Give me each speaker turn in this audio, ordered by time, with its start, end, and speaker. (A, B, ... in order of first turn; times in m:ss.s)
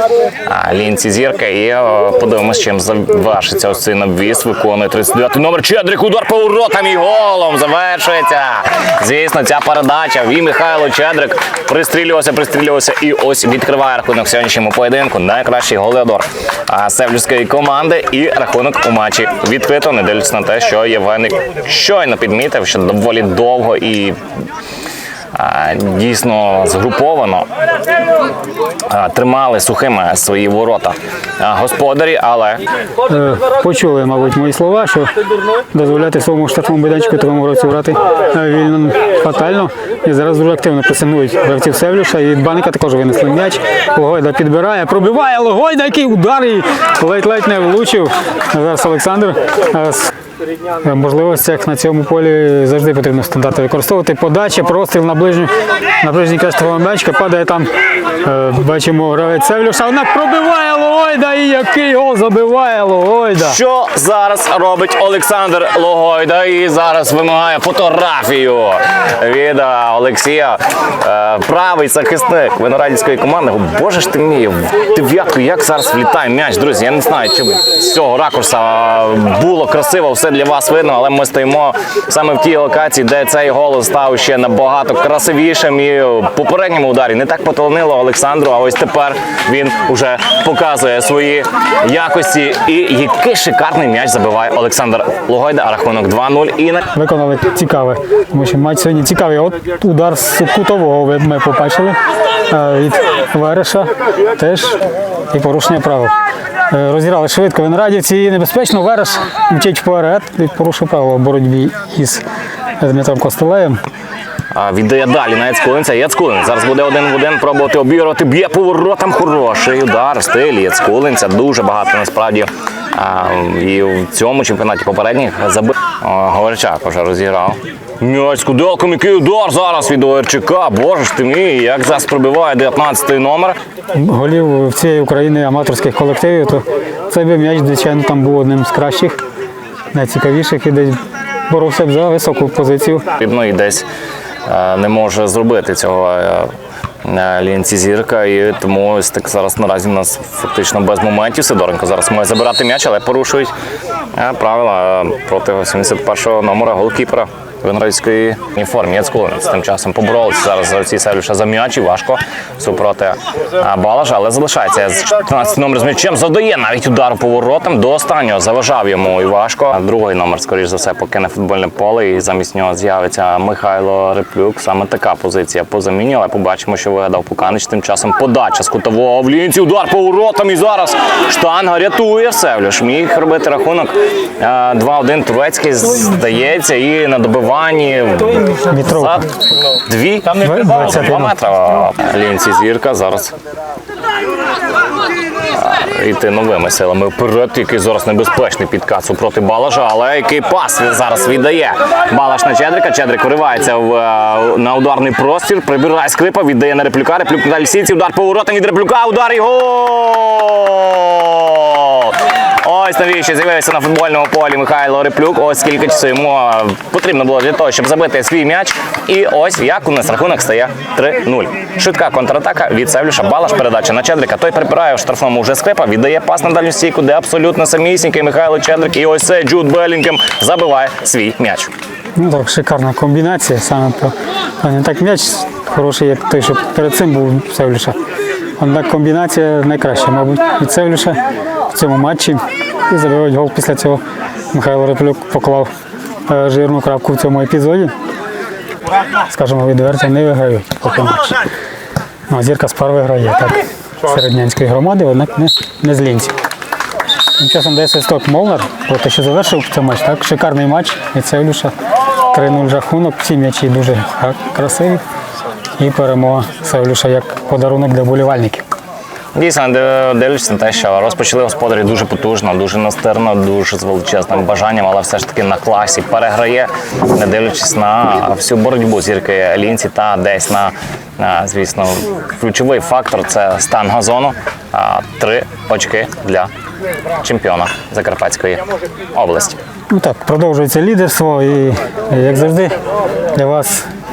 0:00.5-0:24.2 A
0:25.3-0:27.5 A
0:28.9-0:32.6 A
0:33.1-0:35.1 B
0:35.7-0:50.1 B
0:50.8-0:57.7 B
0:58.2-1:03.6 B
1:03.4-1:36.9 A
1:36.9-1:44.8 B
1:45.3-1:46.1 B
1:46.7-1:52.2 B
1:52.8-1:53.8 B
1:54.5-2:13.6 A
2:13.9-2:19.2 B
2:19.9-2:23.0 B
2:23.2-2:23.9 A
2:24.5-2:26.5 A
2:27.0-2:33.5 A
2:34.2-3:13.3 A
3:08.5-3:09.2 B
3:10.4-3:11.4 B
3:15.5-3:51.7 A
3:52.2-3:58.0 B
3:58.6-4:04.0 B
4:04.5-4:05.7 B
4:06.3-4:07.9 B
4:09.2-4:11.4 B
4:12.3-4:16.4 B
4:17.4-4:21.7 B
4:22.3-4:25.0 B
4:25.8-4:28.6 B
4:29.3-4:46.5 A
4:47.2-4:49.6 A
4:49.9-4:52.7 B
4:53.3-4:53.9 B